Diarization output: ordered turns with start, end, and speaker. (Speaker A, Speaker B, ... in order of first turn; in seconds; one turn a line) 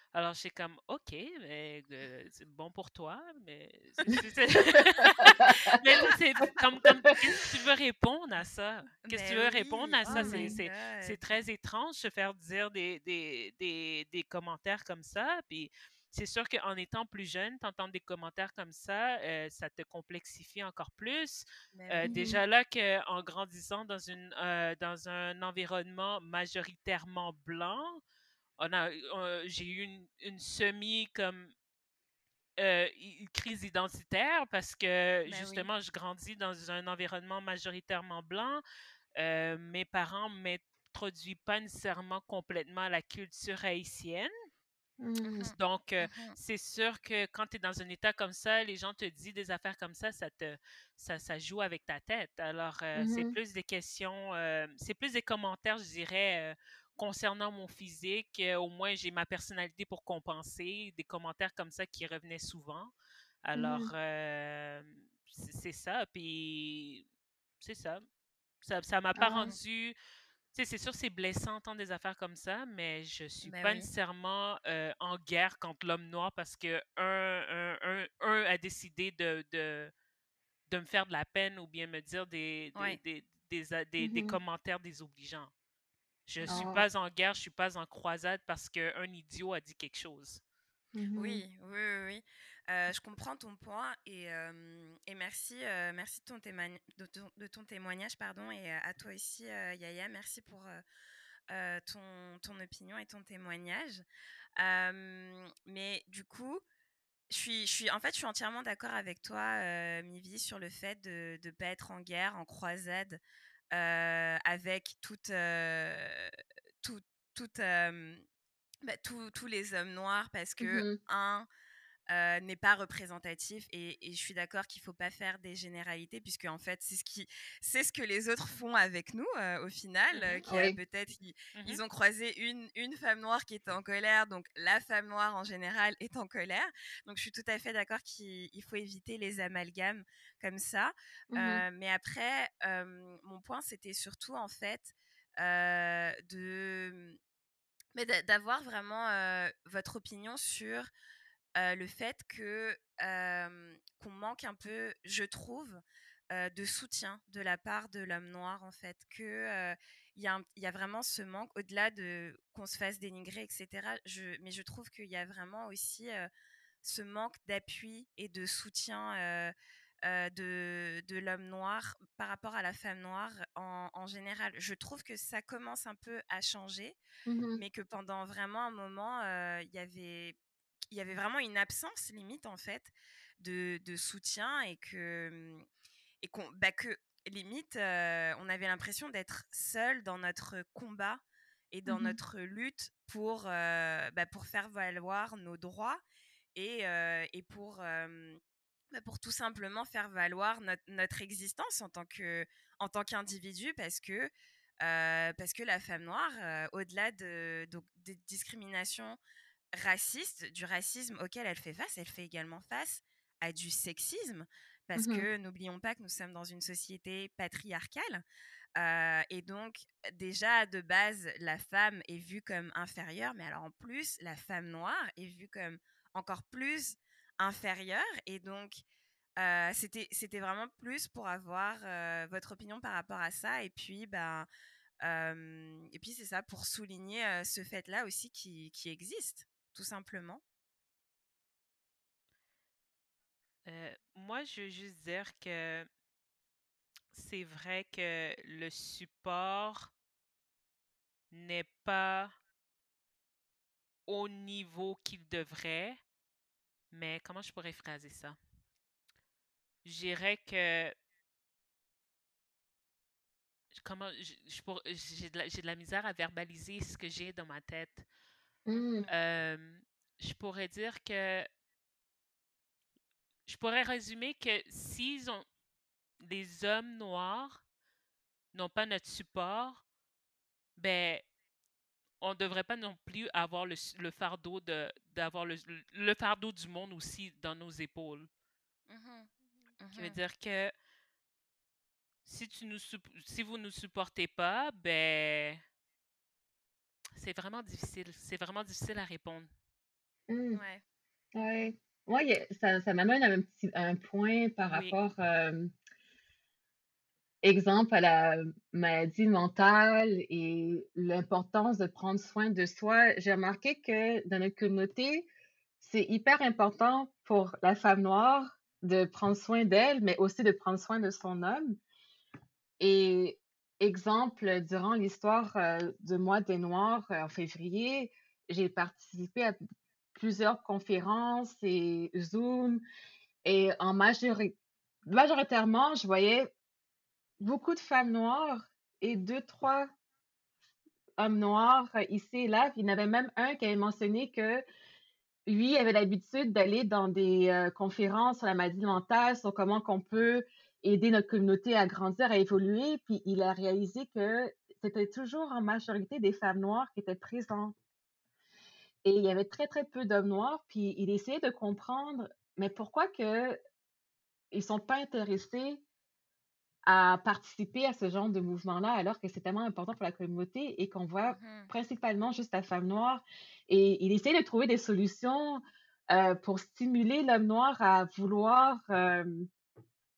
Speaker A: 0.1-28.0
Speaker B: 9.0-11.2
Speaker C: 10.1-10.5
Speaker B: 21.7-22.1
Speaker C: 22.1-22.4
Speaker A: 28.6-31.5
Speaker A: 32.6-38.6
Speaker B: 35.2-35.7
Speaker A: 39.1-44.3
Speaker C: 45.0-45.5
Speaker B: 45.3-46.3
Speaker A: 45.4-62.9
Speaker C: 53.0-53.3
Speaker A: 63.4-67.0
Speaker C: 63.5-63.9
Speaker A: 67.6-68.0
Speaker A: 68.6-69.9
Speaker C: 69.2-69.5
Speaker A: 70.5-79.9
Speaker B: 73.4-73.9
Speaker A: 80.7-85.5
Speaker C: 84.0-84.3
Speaker A: 86.3-90.4
Speaker C: 86.5-86.8
Speaker C: 90.9-91.4
Speaker B: 91.2-100.8
Speaker B: 101.5-104.0
Speaker B: 104.6-106.6
Speaker B: 107.3-113.2
Speaker B: 113.7-118.2
Speaker B: 118.8-121.5
Speaker C: 120.6-121.0
Speaker B: 122.1-147.2
Speaker C: 130.4-130.8
Speaker A: 131.5-131.8
Speaker C: 141.3-141.6
Speaker B: 147.9-150.9
Speaker B: 151.6-166.3
Speaker B: 166.8-177.0
Speaker C: 177.3-177.6
Speaker B: 177.6-180.4
Speaker B: 180.9-185.7
Speaker B: 186.2-196.0
Speaker C: 191.9-192.2
Speaker B: 196.5-198.4
Speaker B: 198.9-204.3
Speaker B: 204.8-209.2
Speaker B: 209.8-218.2
Speaker C: 214.9-215.3
Speaker B: 218.8-228.8
Speaker B: 229.4-234.5
Speaker B: 235.0-240.4
Speaker A: 243.7-245.9
Speaker A: 247.1-249.9
Speaker A: 251.3-252.3
Speaker A: 254.1-256.0
Speaker A: 256.9-258.4
Speaker A: 259.8-260.9
Speaker A: 263.7-268.0
Speaker C: 268.6-269.1
Speaker B: 268.8-269.1
Speaker A: 269.1-271.5
Speaker A: 273.5-275.4
Speaker A: 276.2-277.6
Speaker A: 278.5-279.8
Speaker A: 280.8-281.2
Speaker A: 282.2-288.3
Speaker B: 288.9-290.2
Speaker A: 289.9-290.7
Speaker A: 292.2-295.6
Speaker A: 297.1-299.5
Speaker C: 300.3-300.6
Speaker B: 300.5-300.8
Speaker C: 301.3-305.7
Speaker A: 304.7-305.0
Speaker C: 307.4-315.3
Speaker C: 315.8-321.8
Speaker C: 322.8-329.6
Speaker C: 330.1-332.8
Speaker C: 333.4-334.5
Speaker C: 335.1-336.5
Speaker C: 337.4-339.9
Speaker C: 341.2-344.6
Speaker C: 345.4-357.7
Speaker C: 359.0-363.6
Speaker C: 364.5-365.8
Speaker C: 366.8-379.5
Speaker B: 371.3-371.7